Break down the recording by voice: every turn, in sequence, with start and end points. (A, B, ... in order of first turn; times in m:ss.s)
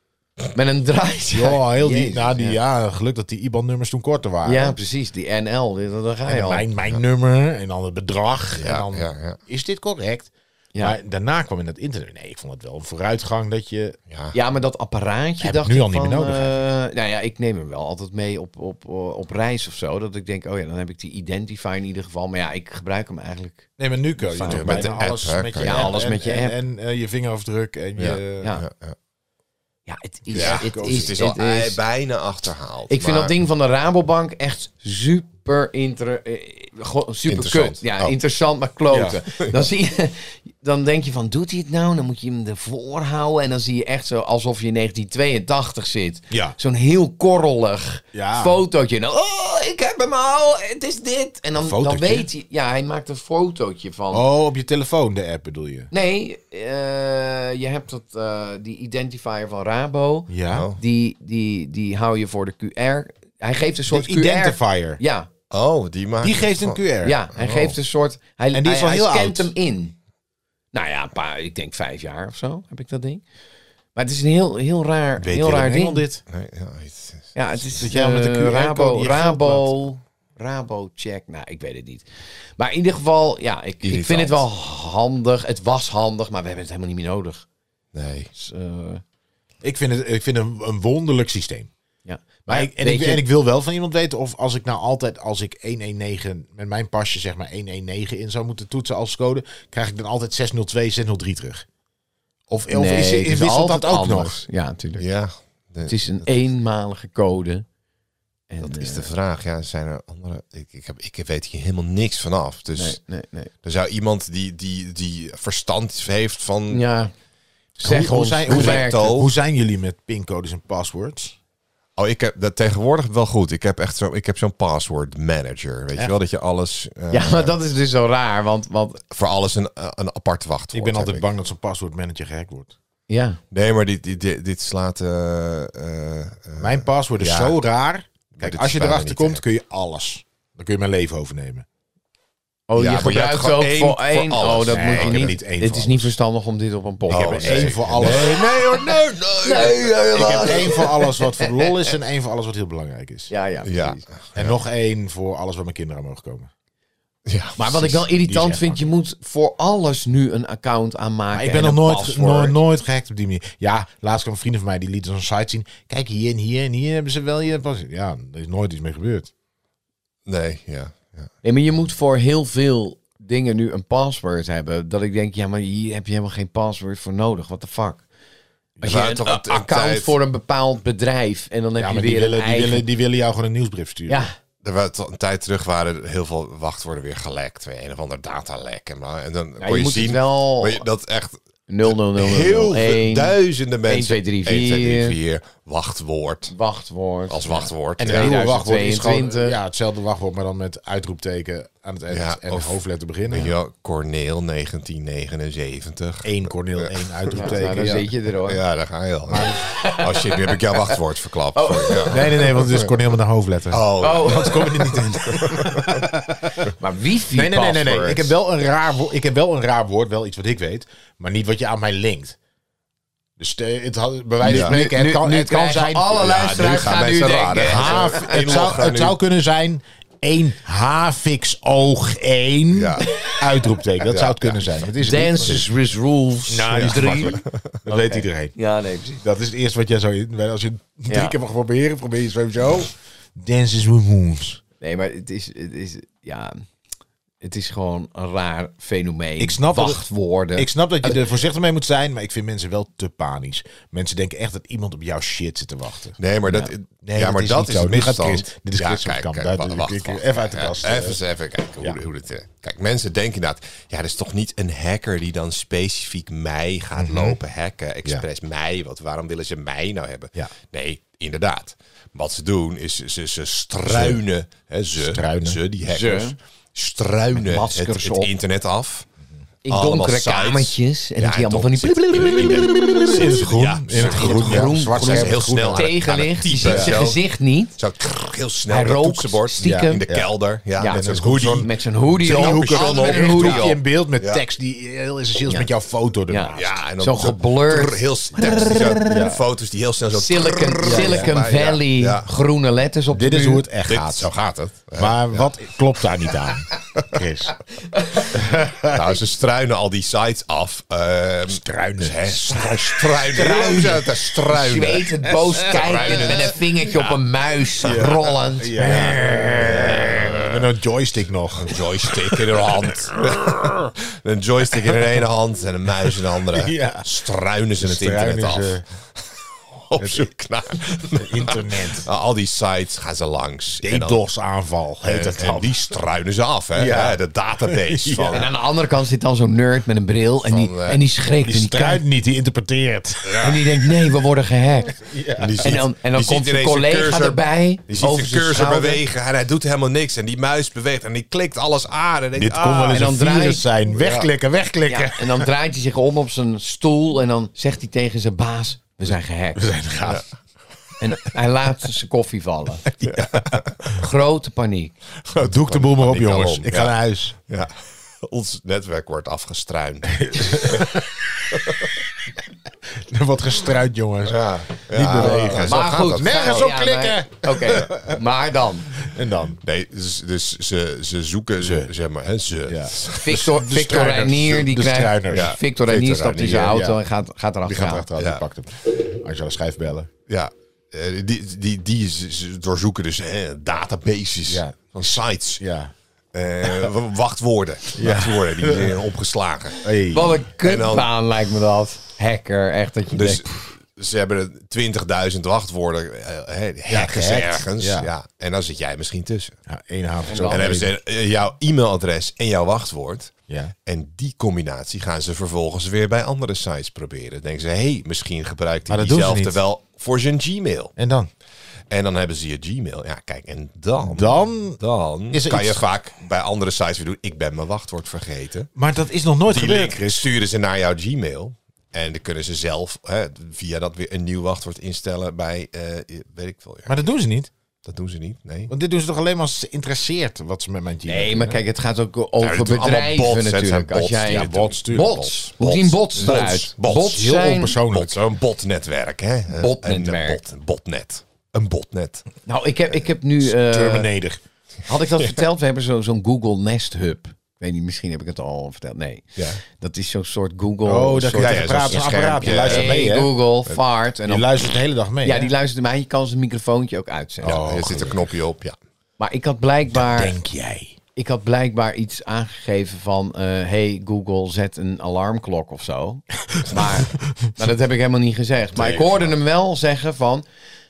0:00.5-0:02.6 A
0:01.3-0:04.8 B
0:04.4-0:06.6 A
0:06.3-0:14.0 B
0:08.5-0:09.4 C
0:14.1-0:14.3 C
0:14.3-0:25.0 A
0:15.4-0:16.6 B
0:23.8-0:28.5 B
0:24.5-0:26.0 C
0:25.6-0:26.5 A
0:28.0-0:29.0 C
0:29.8-0:31.8 A
0:30.3-0:31.1 B
0:30.3-0:33.3 C
0:32.9-0:54.2 A
0:37.3-0:38.1 C
0:38.9-0:39.2 B
0:46.3-0:46.6 B
0:48.1-0:48.6 B
0:51.6-0:52.3 B
0:54.1-0:55.9 B
0:55.9-1:05.3 A
1:00.3-1:00.7 B
1:00.5-1:00.8 C
1:03.9-1:05.0 B
1:05.5-1:07.8 C
1:06.2-1:07.2 B
1:07.0-1:10.0 A
1:08.5-1:09.5 B
1:10.7-1:13.2 A
1:13.9-1:16.0 A
1:15.2-1:16.2 B
1:16.3-1:17.3 C
1:17.3-1:22.0 A
1:17.8-1:19.7 B
1:22.6-1:27.4 A
1:23.8-1:24.4 C
1:27.9-1:28.3 C
1:28.3-1:29.0 A
1:29.6-1:31.7 B
1:32.0-1:33.2 A
1:32.5-1:41.6 B
1:42.5-1:44.4 B
1:42.7-1:45.1 A
1:45.0-1:46.5 C
1:45.8-1:47.6 A
1:48.5-1:49.1 A
1:48.6-1:53.0 C
1:52.7-1:53.5 A
1:53.6-1:56.8 C
1:56.7-1:57.1 A
1:57.8-1:59.1 A
1:57.8-2:01.3 B
1:58.4-1:59.3 C
2:02.0-2:07.5 C
2:07.1-2:09.0 A
2:09.1-2:11.2 C
2:10.7-2:12.7 B
2:13.1-2:13.4 A
2:13.5-2:17.6 C
2:16.6-2:21.6 B
2:18.3-2:19.4 C
2:22.7-2:31.8 A
2:22.8-2:25.4 C
2:24.7-2:26.1 B
2:27.1-2:30.7 C
2:27.1-2:28.4 B
2:30.1-2:33.3 B
2:33.3-2:34.0 A
2:33.6-2:34.6 C
2:34.3-2:36.5 B
2:37.2-2:37.9 C
2:37.6-2:42.6 A
2:37.7-2:38.9 B
2:41.3-2:49.3 B
2:50.2-2:51.3 C
2:51.4-2:58.0 A
2:58.8-3:02.8 A
2:58.8-3:00.1 C
3:01.8-3:04.3 B
3:04.1-3:04.3 A
3:04.6-3:16.5 C
3:09.6-3:10.9 A
3:11.7-3:15.2 A
3:16.5-3:19.6 A
3:17.3-3:18.4 C
3:18.0-3:23.5 B
3:22.1-3:33.0 C
3:26.2-3:28.1 B
3:27.3-3:28.6 A
3:29.3-3:29.5 B
3:29.4-3:31.0 A
3:31.5-3:32.7 A
3:32.0-3:36.7 B
3:33.7-3:36.0 C
3:34.0-3:34.8 A
3:36.8-3:38.3 A
3:37.3-3:42.4 B
3:43.4-3:55.6 B
3:44.4-3:48.8 A
3:44.4-3:44.8 C
3:46.2-3:49.2 C
3:52.7-3:53.1 C
3:53.0-3:53.4 A
3:54.0-3:54.6 C
3:55.0-3:59.2 A
3:56.5-3:58.5 B
3:56.8-3:57.7 C
3:59.2-4:04.6 B
4:01.1-4:01.4 A
4:04.8-4:06.6 A
4:07.4-4:11.2 A
4:09.4-4:10.0 B
4:10.6-4:16.2 B
4:16.2-4:39.1 C
4:16.5-4:16.7 A
4:17.0-4:21.2 B
4:27.0-4:27.4 B
4:33.9-4:34.2 B
4:35.0-4:35.6 B
4:35.8-4:36.4 A
4:37.3-4:38.3 A
4:39.6-4:43.4 A
4:39.7-4:47.2 C
4:43.0-4:45.9 B
4:43.9-4:47.8 A
4:46.6-4:47.0 B
4:47.8-4:51.7 C
4:48.7-4:50.0 A
4:49.6-4:50.3 B
4:50.8-4:51.0 A
4:50.8-4:56.7 B
4:51.6-4:53.7 A
4:52.2-4:54.4 C
4:56.3-4:59.0 A
4:56.5-5:02.3 C
4:58.4-4:59.4 B
5:00.1-5:03.6 A
5:00.8-5:01.3 B
5:03.1-5:04.3 B
5:03.9-5:06.3 C
5:05.0-5:07.7 B
5:07.9-5:08.4 A
5:08.3-5:09.0 B
5:08.8-5:17.2 C
5:11.5-5:13.7 B
5:13.3-5:20.2 A
5:15.8-5:16.1 B
5:17.8-5:23.9 B
5:17.8-5:18.1 C
5:18.8-5:20.7 C
5:21.5-5:34.2 C
5:24.7-5:25.1 B
5:26.0-5:27.1 B
5:27.8-5:28.8 B
5:30.0-5:30.3 B
5:31.0-5:32.1 B
5:33.8-5:35.7 B
5:35.0-5:38.5 C
5:36.7-5:38.5 B
5:38.3-5:42.0 A
5:40.4-5:41.0 C
5:41.4-5:43.9 B
5:43.4-5:45.0 A
5:45.0-5:45.7 B
5:45.4-5:53.1 C
5:45.6-5:49.0 A
5:52.3-5:55.5 B
5:52.9-5:53.6 A
5:53.9-5:54.3 C
5:54.9-5:59.7 A
5:59.6-6:00.2 B
6:01.0-6:02.9 A
6:02.9-6:04.0 B
6:03.0-6:03.7 C
6:03.8-6:05.0 A
6:05.3-6:07.0 C
6:05.3-6:07.3 B
6:07.5-6:11.9 C
6:10.2-6:11.2 B
6:13.1-6:18.2 B
6:14.2-6:16.7 C
6:15.1-6:19.0 A
6:19.0-6:19.6 B
6:19.6-6:23.4 C
6:21.6-6:21.9 B
6:22.7-6:25.5 B
6:23.1-6:28.1 A
6:25.3-6:26.9 C
6:26.6-6:27.0 B
6:27.6-6:30.1 B
6:28.2-6:28.4 C
6:30.3-6:35.6 C
6:34.5-6:35.9 B
6:36.3-6:41.1 C
6:37.9-6:39.0 B
6:39.8-6:40.4 B
6:40.1-6:43.7 A
6:43.1-6:49.6 C
6:46.9-6:48.1 B
6:49.7-6:50.9 B
6:50.2-6:50.7 A
6:50.5-7:00.9 C
6:53.5-6:53.7 B
6:58.9-6:59.6 B
7:01.0-7:01.3 B
7:01.9-7:08.7 C
7:04.0-7:04.8 B
7:05.3-7:05.8 B
7:08.7-7:10.3 B
7:09.5-7:17.0 C
7:16.8-7:17.5 B
7:17.8-7:18.7 C
7:18.7-7:21.6 B
7:21.1-7:27.8 A
7:22.4-7:27.3 C
7:24.3-7:25.1 B
7:27.0-7:28.2 B
7:27.8-7:32.2 C
7:29.5-7:30.4 A
7:32.4-7:34.1 A
7:33.4-7:34.4 B
7:34.9-7:44.6 A
7:39.4-7:39.6 C
7:40.8-7:43.3 B
7:41.4-7:43.1 C
7:44.2-7:45.5 B
7:45.2-7:47.6 A
7:47.4-7:48.2 B
7:47.4-7:48.8 C
7:49.2-7:50.4 A
7:49.9-7:51.0 B
7:51.1-8:00.4 A
7:56.7-7:57.2 B
7:58.8-7:59.1 B